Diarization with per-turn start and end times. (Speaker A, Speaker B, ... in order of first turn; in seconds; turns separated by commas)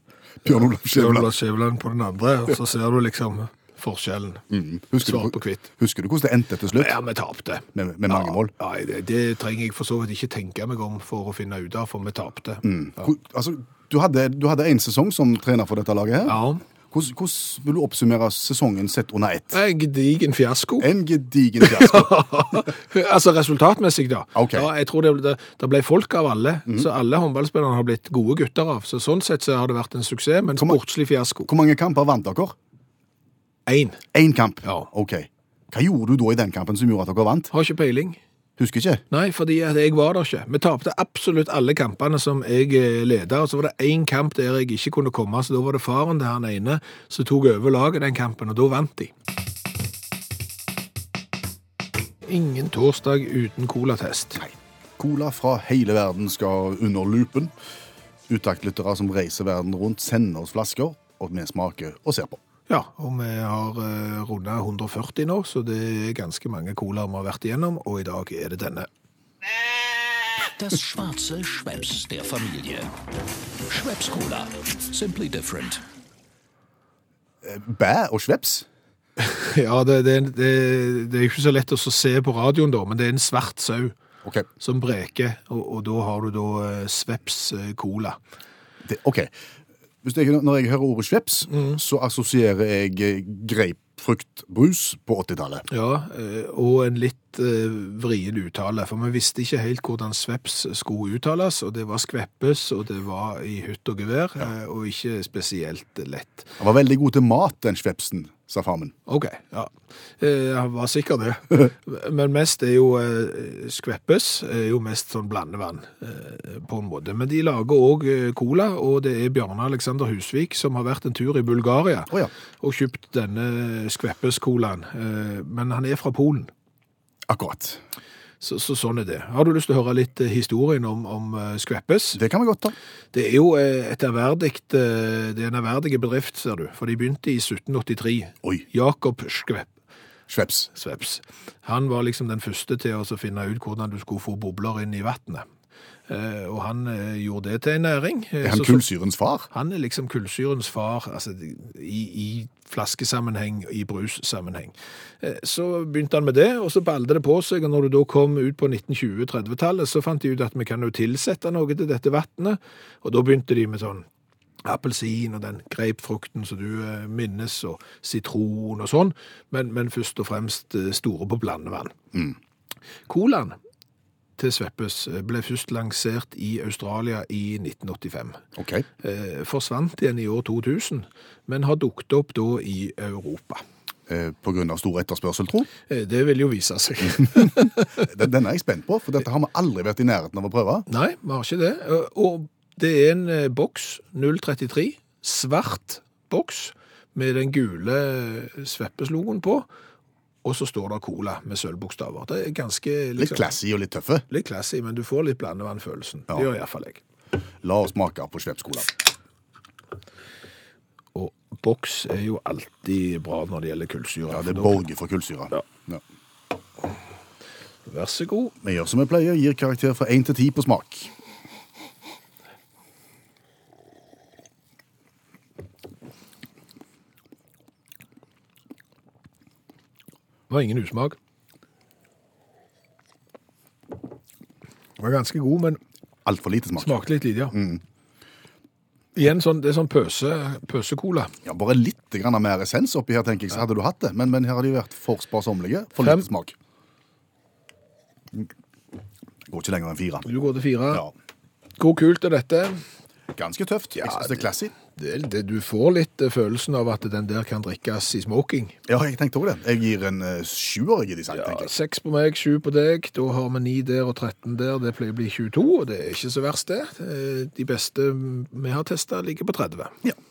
Speaker A: 0.4-1.3, Speaker B: 0.5-4.5, Speaker A: 4.5-7.0, Speaker B: 5.0-5.7, Speaker B: 6.8-12.6, Speaker A: 7.7-8.5, Speaker A: 12.6-19.6, Speaker B: 16.2-16.6, Speaker B: 19.5-20.9, Speaker A: 20.8-22.1, Speaker B: 21.6-31.5, Speaker A: 24.4-24.7, Speaker A: 31.5-32.5, Speaker B: 33.7-34.0, Speaker A: 34.1-37.5, Speaker B: 37.5-38.2, Speaker A: 38.6-39.0, Speaker B: 39.1-49.1, Speaker B: 52.3-54.4, Speaker A: 54.4-57.5, Speaker A: 58.3-62.4, Speaker B: 62.7-68.9, Speaker C: 70.4-72.9, Speaker C: 73.7-75.8, Speaker A: 77.4-78.7, Speaker B: 79.2-84.0, Speaker B: 84.6-88.2, Speaker A: 88.8-89.3, Speaker A: 90.0-95.7, Speaker B: 91.5-91.8, Speaker B: 95.7-106.6, Speaker A: 106.6-108.9, Speaker B: 109.1-126.5, Speaker A: 127.3-127.8, Speaker B: 128.4-132.2, Speaker A: 132.2-132.8, Speaker B: 133.1-139.7, Speaker A: 140.3-140.7, Speaker B: 140.7-145.5, Speaker B: 146.1-148.9, Speaker A: 148.4-149.5, Speaker B: 149.5-164.1, Speaker B: 164.6-171.9, Speaker B: 173.1-173.6, Speaker B: 174.4-178.4, Speaker A: 178.6-178.9, Speaker B: 179.0-183.6, Speaker A: 184.1-185.7, Speaker B: 185.9-188.1, Speaker A: 188.0-190.8, Speaker B: 190.9-199.7, Speaker B: 200.4-203.6, Speaker A: 203.2-204.3, Speaker B: 204.3-207.0, Speaker A: 207.6-208.9, Speaker B: 211.2-214.8, Speaker A: 214.3-216.0, Speaker B: 217.9-218.5, Speaker A: 218.6-221.1, Speaker B: 230.5-231.2, Speaker B: 235.0-235.8, Speaker A: 236.2-237.8, Speaker B: 236.8-237.6, Speaker B: 239.2-241.3, Speaker A: 241.4-246.5, Speaker B: 246.0-246.3, Speaker A: 249.5-250.3, Speaker B: 250.3-251.0, Speaker B: 251.8-252.8, Speaker A: 253.3-254.7, Speaker B: 254.0-254.4, Speaker B: 254.9-258.8, Speaker A: 258.9-261.7, Speaker B: 261.3-269.9